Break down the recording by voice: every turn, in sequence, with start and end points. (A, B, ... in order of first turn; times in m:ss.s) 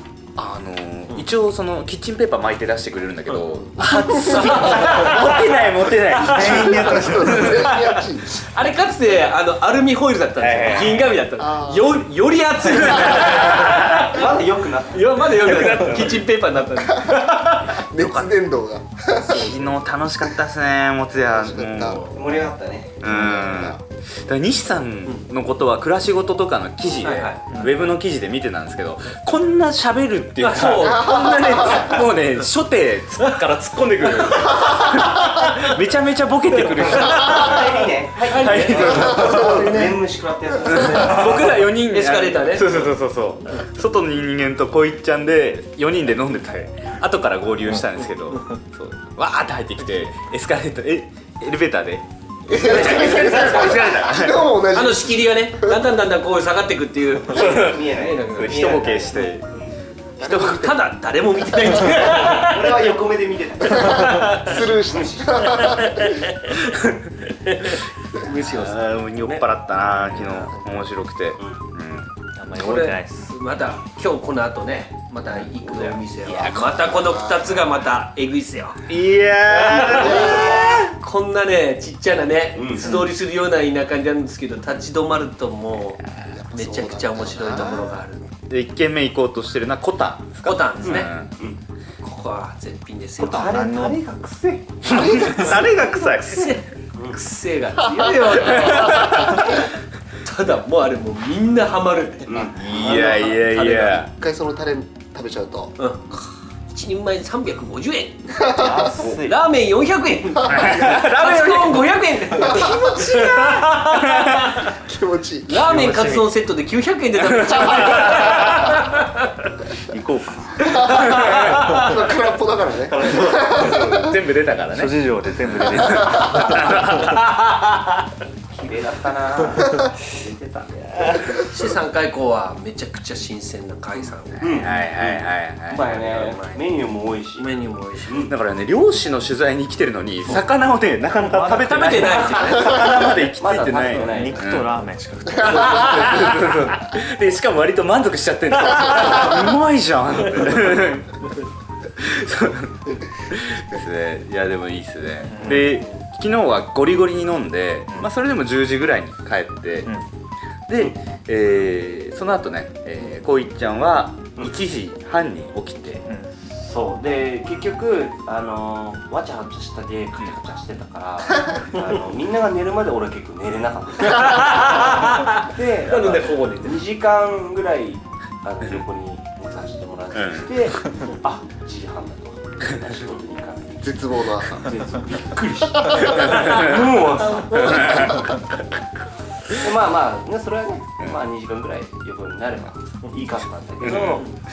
0:00.4-0:08.0 A
0:03.6-0:04.8 B
0:04.1-0:05.4 C
0:06.1-0:14.4 C
0:06.3-0:08.4 B
0:10.4-0:11.2 A
0:11.4-0:12.0 B
0:12.8-0:14.1 A
0:13.7-0:15.9 D
0:14.9-0:18.2 C
0:15.6-0:16.2 A
0:16.9-0:19.7 B
0:19.2-0:22.1 A
0:19.3-0:19.6 C
0:21.3-0:22.2 B
0:22.1-0:23.0 D
0:23.0-0:39.8 A
0:23.1-0:23.8 B
0:23.1-0:23.4 E
0:27.0-0:27.6 C
0:27.5-0:27.8 E
0:30.4-0:32.2 C
0:34.2-0:35.6 C
0:36.8-0:37.6 C
0:37.2-0:41.6 D
0:38.3-0:40.0 C
0:40.7-0:54.5 A
0:40.8-0:42.9 C
0:52.5-0:55.8 B
0:52.5-0:53.9 C
0:54.7-0:59.3 C
0:57.3-0:58.5 D
0:57.3-0:57.8 A
0:58.3-0:59.5 A
1:00.2-1:00.8 B
1:00.2-1:00.7 A
1:00.2-1:02.8 C
1:02.1-1:04.3 D
1:03.8-1:06.1 B
1:03.8-1:04.6 C
1:04.9-1:05.4 D
1:05.4-1:06.6 C
1:07.2-1:09.4 C
1:08.4-1:12.1 A
1:12.4-1:13.3 E
1:12.6-1:18.9 C
1:16.2-1:17.0 A
1:17.0-1:17.5 B
1:18.9-1:20.9 A
1:19.5-1:28.3 C
1:20.2-1:20.6 B
1:22.6-1:23.0 D
1:26.3-1:28.0 B
1:28.5-1:31.3 A
1:30.4-1:31.1 C
1:32.0-1:33.7 C
1:33.2-1:34.0 A
1:33.3-1:34.0 E
1:33.6-1:34.4 D
1:34.8-1:36.6 A
1:34.9-1:35.7 B
1:36.1-1:39.7 C
1:36.9-1:37.2 D
1:38.3-1:39.6 A
1:40.2-1:44.0 C
1:42.3-1:42.6 D
1:42.5-1:44.1 A
1:44.1-1:45.7 B
1:45.8-1:48.6 C
1:48.4-1:49.0 B
1:48.5-1:49.4 E
1:49.2-1:54.7 C
1:50.4-1:51.9 A
1:52.4-1:53.3 B
1:53.2-1:54.5 A
1:54.6-1:55.7 B
1:55.5-1:59.2 C
1:55.5-1:56.3 E
1:57.4-1:58.5 A
1:59.9-2:00.8 E
2:00.6-2:04.1 B
2:01.1-2:01.9 A
2:01.1-2:01.5 C
2:02.9-2:04.0 E
2:03.2-2:07.7 A
2:04.7-2:06.7 E
2:08.5-2:11.4 D
2:11.3-2:14.7 C
2:14.4-2:15.2 D
2:14.6-2:16.1 A
2:15.7-2:17.5 D
2:16.0-2:16.6 C
2:17.4-2:18.1 C
2:18.0-2:18.3 D
2:18.3-2:24.7 A
2:21.2-2:22.4 E
2:21.6-2:22.9 C
2:23.4-2:24.5 D
2:23.9-2:26.1 E
2:25.4-2:31.3 A
2:32.0-2:40.0 A
2:35.2-2:35.7 E
2:40.7-2:46.0 A
2:46.5-3:08.4 D
2:54.1-2:56.8 C
3:00.1-3:00.5 A
3:03.8-3:04.7 B
3:06.0-3:06.8 A
3:07.2-3:08.1 C
3:07.5-3:08.4 A
3:09.5-3:14.3 D
3:13.8-3:14.2 A